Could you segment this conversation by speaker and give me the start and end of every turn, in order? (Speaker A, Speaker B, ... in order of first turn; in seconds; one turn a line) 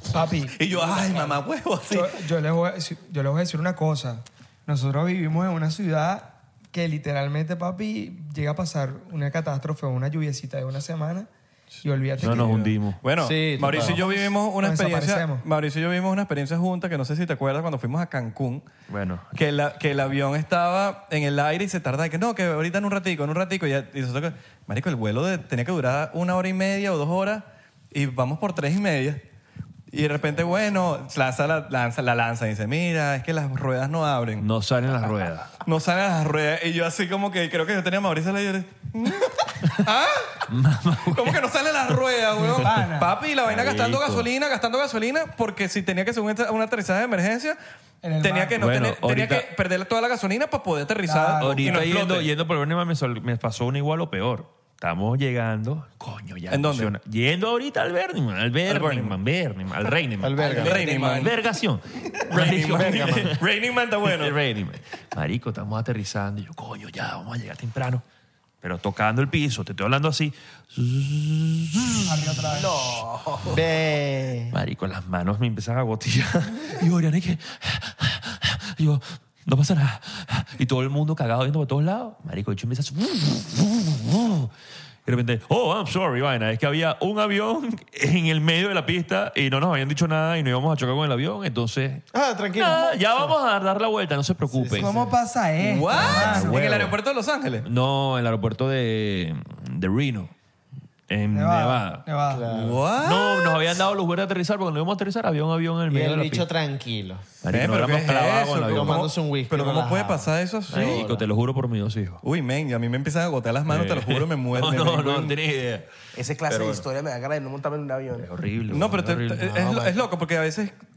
Speaker A: 0.1-0.6
Speaker B: 0.5-2.2
Speaker C: 0.7-1.4
Speaker A: 1.9-11.3
Speaker A: 11.8-12.5
Speaker D: 12.2-13.0
Speaker B: 12.2-18.7
Speaker E: 13.2-14.0
Speaker A: 13.8-15.4
Speaker D: 18.9-19.3
Speaker B: 19.3-29.2
Speaker B: 29.9-34.5
Speaker D: 34.4-35.5
Speaker B: 35.6-40.4
Speaker D: 40.5-41.4
Speaker B: 41.1-47.6
Speaker A: 42.4-43.1
Speaker D: 43.5-44.3
Speaker A: 48.0-48.6
Speaker B: 48.2-52.3
Speaker D: 48.5-49.5
Speaker A: 51.0-51.8
Speaker D: 51.4-60.5
Speaker B: 56.5-56.9
Speaker B: 58.6-59.2
Speaker E: 60.2-60.8
Speaker C: 60.4-61.3
Speaker B: 60.4-61.3
Speaker D: 61.0-63.4
Speaker B: 62.3-64.3
Speaker E: 62.7-63.3
Speaker D: 64.0-68.0
Speaker D: 68.6-72.3
Speaker A: 72.0-72.7
Speaker C: 72.5-73.6
Speaker E: 73.5-74.5
Speaker D: 74.5-84.5
Speaker D: 85.0-94.9
Speaker E: 92.1-93.3
Speaker E: 94.5-95.1
Speaker A: 94.7-96.6
Speaker B: 95.6-97.7
Speaker D: 95.9-96.9
Speaker D: 97.6-100.3
Speaker D: 101.1-102.1
Speaker A: 101.3-102.4
Speaker E: 102.3-102.8
Speaker B: 102.5-103.6
Speaker D: 102.9-106.5
Speaker E: 105.9-107.2
Speaker D: 107.4-109.0
Speaker B: 107.5-111.0
Speaker E: 108.7-111.2
Speaker D: 110.7-112.2
Speaker B: 112.2-115.3
Speaker D: 113.7-115.9
Speaker C: 116.1-118.3
Speaker D: 116.5-116.8
Speaker D: 118.2-119.5
Speaker B: 118.7-120.7
Speaker E: 119.4-120.0